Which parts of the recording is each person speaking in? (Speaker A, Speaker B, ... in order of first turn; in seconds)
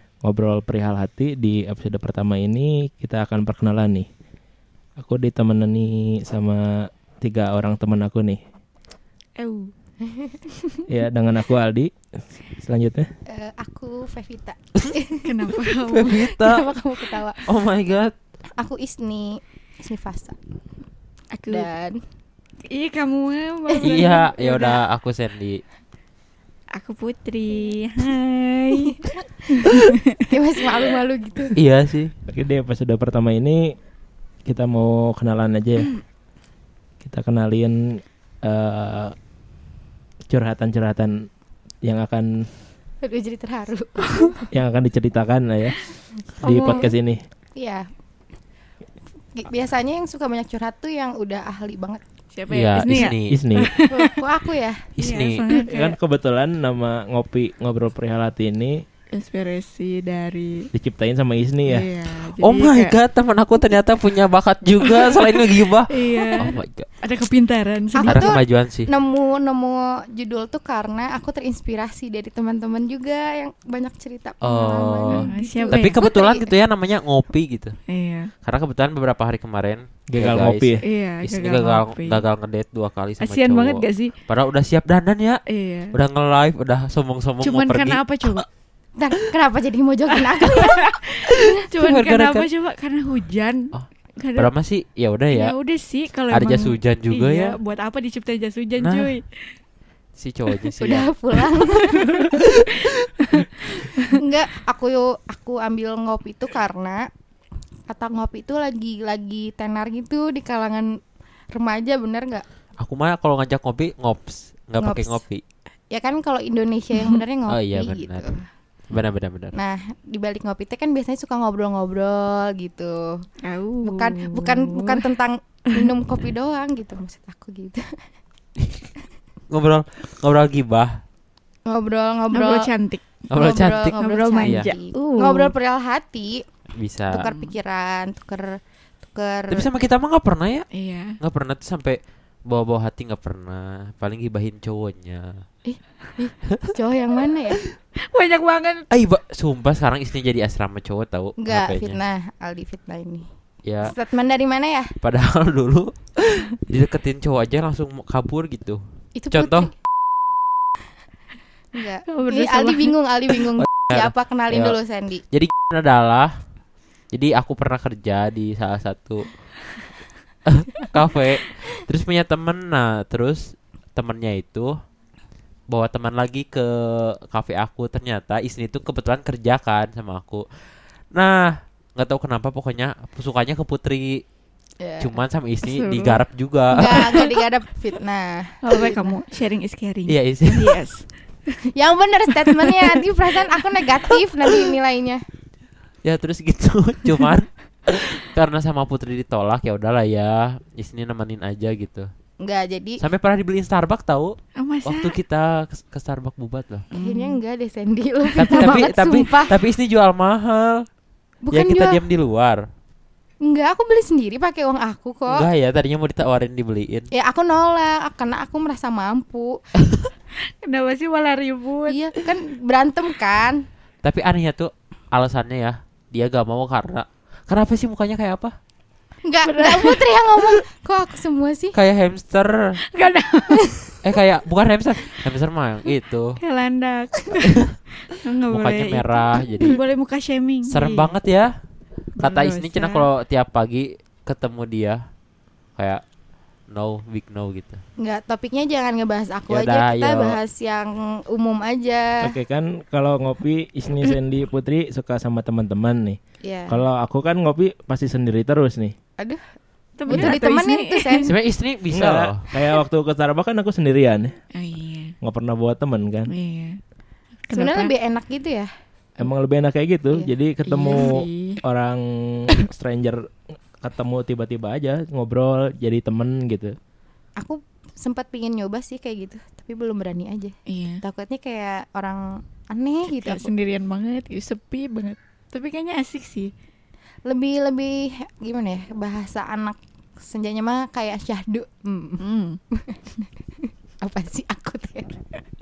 Speaker A: 0.2-4.1, 5.0-8.4, 10.9-11.9, 12.6-13.1, 32.3-33.8, 34.5-35.9, 37.0-39.2, 40.3-41.3, 41.8-42.5, 44.5-45.8, 46.4-47.2, 52.9-53.8, 55.6-58.8, 60.7-61.9, 80.1-80.8, 252.2-258.9, 261.9-264.4, 265.2-266.3, 269.2-273.2, 273.8-276.8
Speaker B: 9.4-9.7, 15.2-16.5, 21.3-21.7, 22.7-24.8, 26.7-30.3, 46.5-46.9, 52.3-54.2, 55.0-56.0, 59.1-60.7, 61.7-63.0, 64.8-65.2, 65.9-68.3, 75.1-76.0, 77.9-78.3, 80.8-82.2, 83.2-84.2, 85.5-86.0, 87.4-88.5, 90.4-94.5, 95.3-99.5, 101.8-104.1, 123.4-125.0, 132.3-133.2, 134.0-135.5, 137.2-137.5, 140.7-141.2, 148.0-148.9, 162.1-163.4, 185.6-186.2, 188.6-191.1, 192.4-192.8, 204.6-205.2, 206.9-207.4, 208.2-208.8, 220.4-222.0, 229.5-230.4, 232.8-234.0, 236.4-241.1, 242.2-243.1, 260.0-261.4, 264.5-265.1, 266.3-266.8, 267.5-267.9, 270.7-271.6, 280.7-281.0, 283.1-286.5, 292.2-292.6
Speaker C: 10.0-10.4, 13.3-15.3, 16.4-17.4, 18.6-20.4, 21.5-22.0, 23.7-24.0, 28.8-29.1, 30.3-31.6, 43.0-44.4, 46.4-46.9, 47.6-47.9, 49.3-52.0, 53.9-54.9, 68.0-76.5, 89.0-91.7, 100.8-102.3, 104.0-107.1, 107.9-110.9, 111.5-112.5, 114.8-115.2, 115.9-118.5, 119.5-123.2, 123.8-127.8, 131.7-132.7, 133.3-136.4, 137.1-139.7, 145.7-147.6, 151.4-153.3, 153.8-154.9, 159.2-159.7, 161.7-165.2, 184.8-185.2, 186.7-189.2, 191.7-195.2, 202.4-203.0, 206.9-209.6, 211.4-212.0, 213.4-215.5, 217.1-219.6, 221.9-223.6, 229.2-231.8, 248.0-252.3, 256.4-256.8, 260.1-261.3, 267.5-268.7, 277.4-283.5, 287.3-295.2
Speaker D: 15.5-16.7, 17.4-18.1, 23.8-25.6, 31.6-32.1, 52.5-53.4, 55.0-55.5, 62.1-66.9, 68.0-68.9, 74.4-77.8, 78.4-85.4, 85.9-88.5, 91.8-92.5, 94.4-95.6, 96.3-97.6, 98.8-99.2, 100.2-101.1, 112.8-115.4, 117.5-118.3, 118.9-119.6, 129.5-131.0, 133.3-134.7, 136.8-137.2, 139.5-140.7, 141.2-145.3, 148.9-152.0, 153.7-153.9, 155.0-159.7, 163.6-164.8, 165.3-166.4, 167.1-169.3, 170.5-174.8, 175.7-184.2, 185.0-187.3, 190.1-190.8, 196.0-202.1, 203.0-206.9, 208.4-210.9, 211.5-212.7, 215.3-217.1, 224.0-228.6, 231.7-232.8, 234.0-236.4, 238.5-239.8, 240.7-241.5, 242.2-245.0, 245.8-246.0, 246.7-247.8, 249.5-250.4, 261.3-262.4